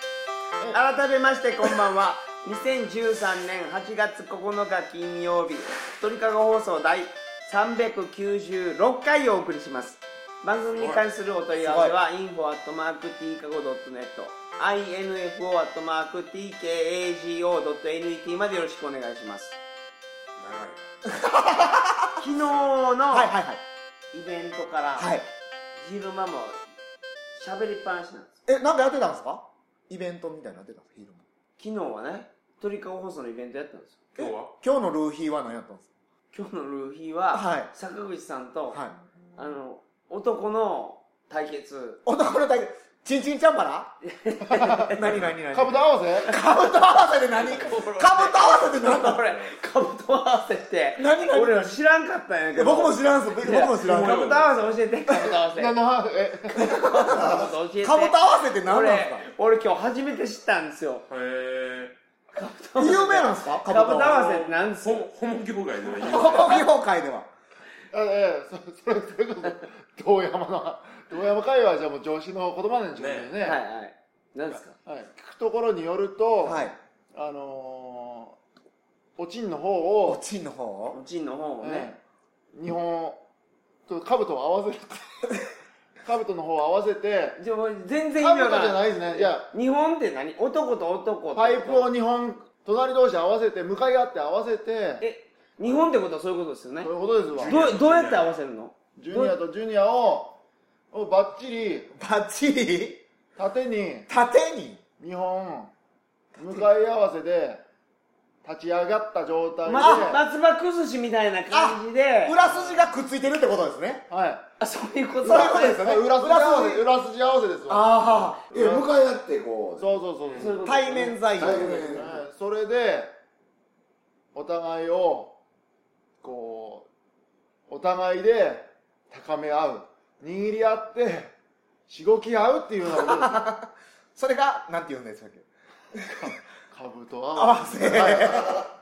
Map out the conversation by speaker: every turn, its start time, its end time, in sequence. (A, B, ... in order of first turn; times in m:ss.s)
0:00.7-0:19.6 A
0:10.7-0:11.0 B
0:11.6-0:11.9 C
0:20.4-0:20.9 B
0:21.1-0:22.1 C
0:22.2-0:23.3 A
0:23.1-0:23.6 C
0:24.1-0:25.1 A
0:25.0-0:25.2 C
0:25.8-0:26.6 A
0:27.3-0:28.4 A
0:28.5-0:31.2 C
0:31.6-0:34.0 A
0:34.2-0:34.5 B
0:34.2-0:35.9 C
0:36.3-0:38.8 A
0:37.3-0:37.7 C
0:39.4-0:42.0 A
0:42.0-0:43.9 C
0:44.0-0:45.2 A
0:44.5-0:44.9 D
0:44.9-0:49.2 C
0:45.5-0:46.3 D
0:47.5-0:47.8 B
0:47.6-0:55.8 A
0:48.4-0:49.5 B
0:51.0-0:51.8 C
0:52.5-0:54.3 C
0:53.5-0:54.8 B
0:55.5-0:56.7 D
0:56.5-0:59.3 C
0:56.6-1:01.0 A
1:01.1-1:01.9 B
1:02.3-1:05.1 A
1:02.8-1:04.2 C
1:03.9-1:06.6 B
1:06.0-1:07.3 C
1:07.9-1:13.6 D
1:12.9-1:13.3 B
1:13.4-1:14.8 A
1:14.8-1:18.4 D
1:16.4-1:16.8 C
1:19.2-1:20.2 D
1:20.0-1:21.0 C
1:20.9-1:21.9 A
1:21.6-1:22.0 D
1:22.5-1:23.2 D
1:23.9-1:25.4 D
1:26.0-1:27.4 D
1:27.4-1:31.9 A
1:28.2-1:29.5 D
1:31.3-1:35.0 D
1:35.0-1:36.9 A
1:36.8-1:37.6 D
1:37.3-1:38.4 B
1:37.5-1:39.4 A
1:39.0-1:40.4 D
1:40.9-1:41.9 D
1:41.9-1:43.0 C
1:43.4-1:44.1 D
1:44.1-1:44.8 C
1:45.0-1:45.7 D
1:46.4-1:47.6 D
1:46.4-1:46.6 C
1:48.4-1:50.2 D
1:49.6-1:52.4 A
1:49.7-1:50.2 C
1:51.5-1:54.0 C
1:52.4-1:52.9 D
1:54.1-1:54.4 D
1:54.6-1:55.8 A
1:55.2-1:56.8 C
1:55.3-1:58.9 D
1:57.7-1:58.5 C
1:58.5-2:00.0 E
1:59.8-2:03.1 D
2:00.4-2:01.2 A
2:00.6-2:02.2 C
2:01.4-2:02.1 E
2:04.3-2:05.3 D
2:06.2-2:06.9 D
2:07.7-2:11.3 D
2:11.9-2:13.4 D
2:12.8-2:15.4 C
2:15.9-2:16.3 C
2:16.2-2:18.7 D
2:17.3-2:18.6 C